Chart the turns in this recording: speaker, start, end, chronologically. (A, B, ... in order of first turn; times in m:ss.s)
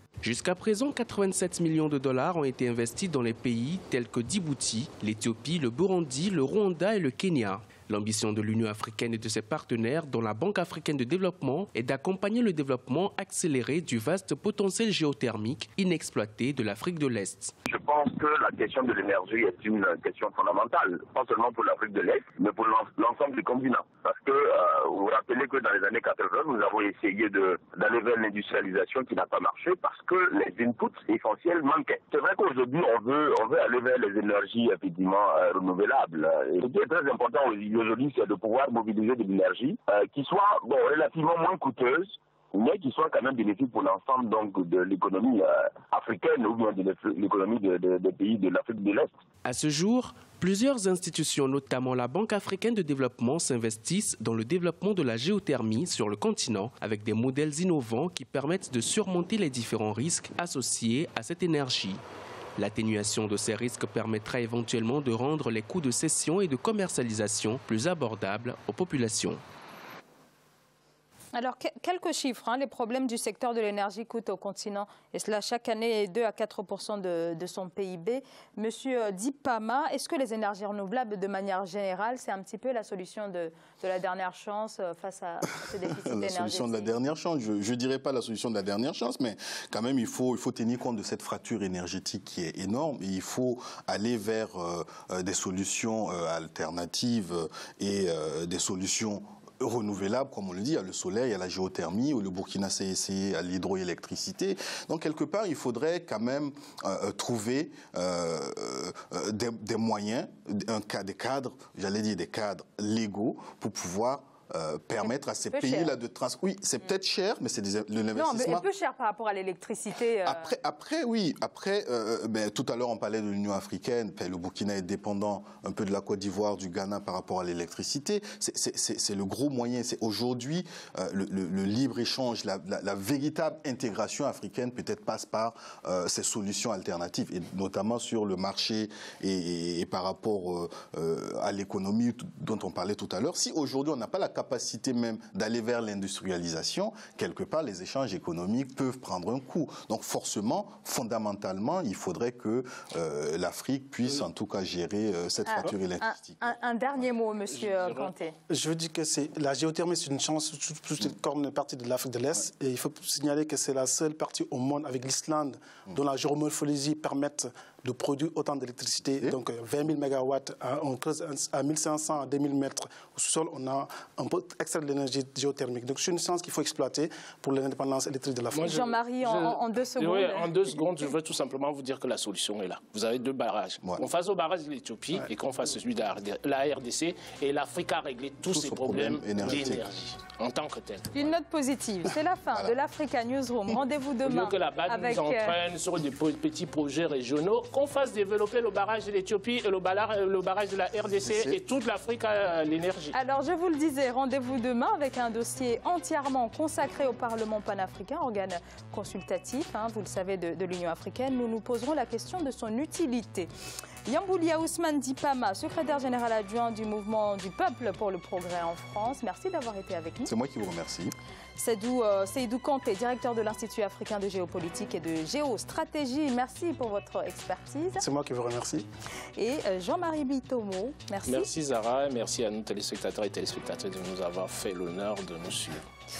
0:00.2-0:17.5 A
0:17.7-0:49.1 B
0:49.4-1:02.0 A
1:02.6-1:09.4 A
1:11.3-1:26.9 C
1:26.0-1:58.6 D
1:55.0-1:55.9 C
1:58.1-2:00.5 C
2:00.2-2:36.4 D
2:35.5-2:38.3 C
2:37.6-2:38.1 E
2:38.5-2:58.8 F
2:58.5-3:11.3 E
2:58.6-3:00.5 C
3:08.5-3:09.8 D
3:11.1-3:15.6 C
3:14.2-3:23.1 E
3:21.2-3:21.6 D
3:23.1-3:33.5 C
3:34.1-3:40.3 C
3:40.3-3:41.1 D
3:41.6-3:48.0 C
3:48.0-3:48.9 F
3:49.4-3:51.5 C
3:51.3-3:55.8 E